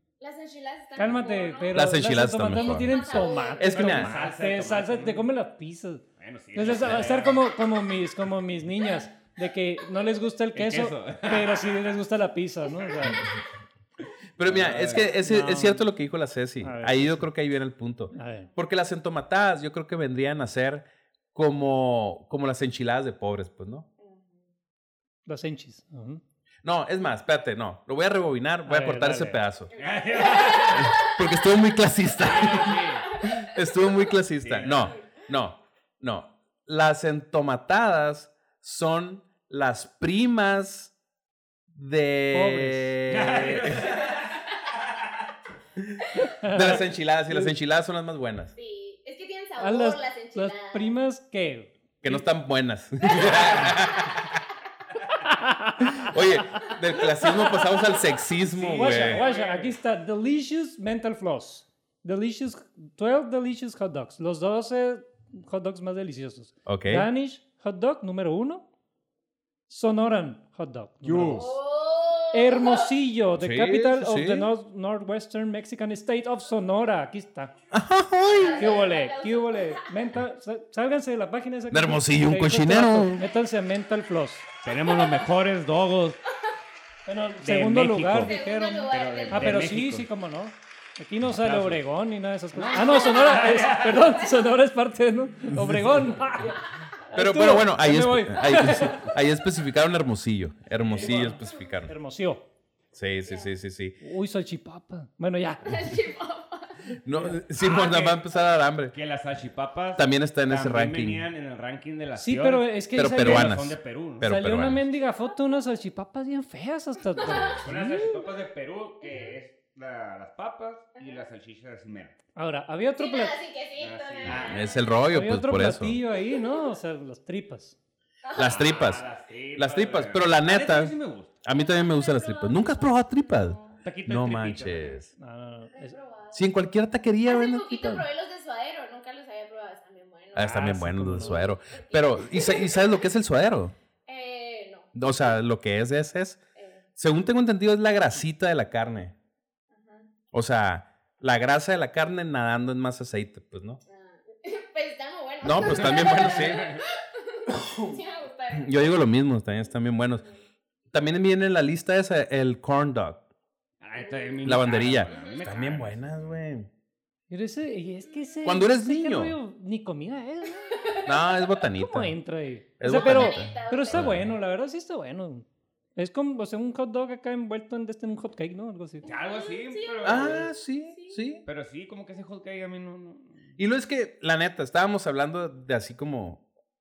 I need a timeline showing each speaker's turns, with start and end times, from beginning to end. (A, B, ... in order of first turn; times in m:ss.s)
0:00.2-0:02.0 A
0:01.0-0:13.2 B
0:01.7-0:04.1 C
0:02.6-0:03.7 A
0:03.6-0:05.3 D
0:06.2-0:07.4 D
0:10.5-0:12.0 D
0:12.8-0:13.2 D
0:14.4-0:23.9 C
0:14.4-0:15.1 D
0:14.7-0:15.9 B
0:16.6-0:17.3 B
0:18.1-0:18.5 B
0:24.0-0:24.4 A
0:25.3-0:26.2 B
0:26.6-0:29.7 C
0:28.7-0:29.4 B
0:29.7-0:31.2 A
0:29.8-0:31.1 D
0:30.8-0:40.9 C
0:32.2-0:33.1 D
0:32.5-0:33.5 A
0:34.4-0:34.9 D
0:41.7-0:44.1 C
0:42.3-0:43.0 B
0:43.1-0:45.1 D
0:45.8-0:48.5 C
0:46.2-0:47.5 B
0:48.6-0:50.9 A
0:49.6-0:52.2 B
0:52.0-0:54.3 C
0:53.1-0:53.7 A
0:55.2-0:56.7 B
0:56.0-0:59.2 C
0:57.2-0:58.0 A
0:58.5-0:59.8 D
0:58.7-1:08.6 B
1:06.6-1:07.1 C
1:09.7-1:11.5 B
1:11.0-1:11.6 D
1:11.3-1:12.9 A
1:12.3-1:17.5 B
1:13.4-1:14.5 C
1:17.7-1:18.7 C
1:18.3-1:19.9 A
1:18.6-1:24.5 B
1:21.7-1:23.2 C
1:24.6-1:26.2 D
1:25.0-1:25.2 A
1:27.1-1:39.1 B
1:27.4-1:30.1 D
1:28.2-1:29.7 A
1:31.3-1:31.8 D
1:32.6-1:34.2 D
1:35.5-1:35.9 C
1:37.1-1:41.9 C
1:40.9-1:41.3 D
1:41.0-1:42.5 B
1:42.9-1:44.0 C
1:43.3-1:43.5 A
1:44.0-1:45.8 B
1:45.6-1:47.0 A
1:47.0-1:49.0 C
1:47.4-1:48.2 D
1:48.9-1:54.3 D
1:50.0-1:51.3 C
1:52.2-1:53.6 B
1:53.0-1:54.8 C
1:54.2-1:58.2 B
1:57.2-1:57.6 A
1:57.5-2:02.2 D
2:01.0-2:01.3 A
2:02.4-2:03.4 B
2:03.0-2:05.0 A
2:03.8-2:04.7 D
2:04.3-2:06.0 C
2:05.1-2:07.8 B
2:08.2-2:08.7 A
2:08.4-2:15.1 C
2:08.4-2:11.4 D
2:11.5-2:13.8 A
2:13.8-2:15.0 D
2:15.2-2:16.0 B
2:15.7-2:16.5 A
2:16.3-2:18.1 C
2:17.3-2:22.8 A
2:20.3-2:23.8 C
2:20.4-2:21.5 B
2:24.1-2:24.9 A
2:25.0-2:26.4 C
2:26.6-2:26.8 A
2:27.0-2:29.2 C
2:29.7-2:30.1 A
2:30.3-2:33.8 C
2:33.9-2:39.1 A
2:35.4-2:36.6 C
2:35.6-2:36.8 D
2:37.5-2:38.0 C
2:38.5-2:40.2 C
2:40.9-2:43.2 C
2:43.8-2:46.4 D
2:44.0-2:45.5 A
2:44.4-2:46.7 C
2:47.3-2:51.0 B
2:48.1-2:48.6 A
2:48.4-2:49.4 C
2:50.7-2:51.2 A
2:51.0-2:52.2 C
2:51.8-2:59.0 B
2:52.8-2:54.3 C
2:53.0-2:54.1 A
2:59.0-3:00.5 D
2:59.0-3:01.2 A
3:00.0-3:01.4 C
3:01.4-3:03.5 D
3:03.6-3:06.4 C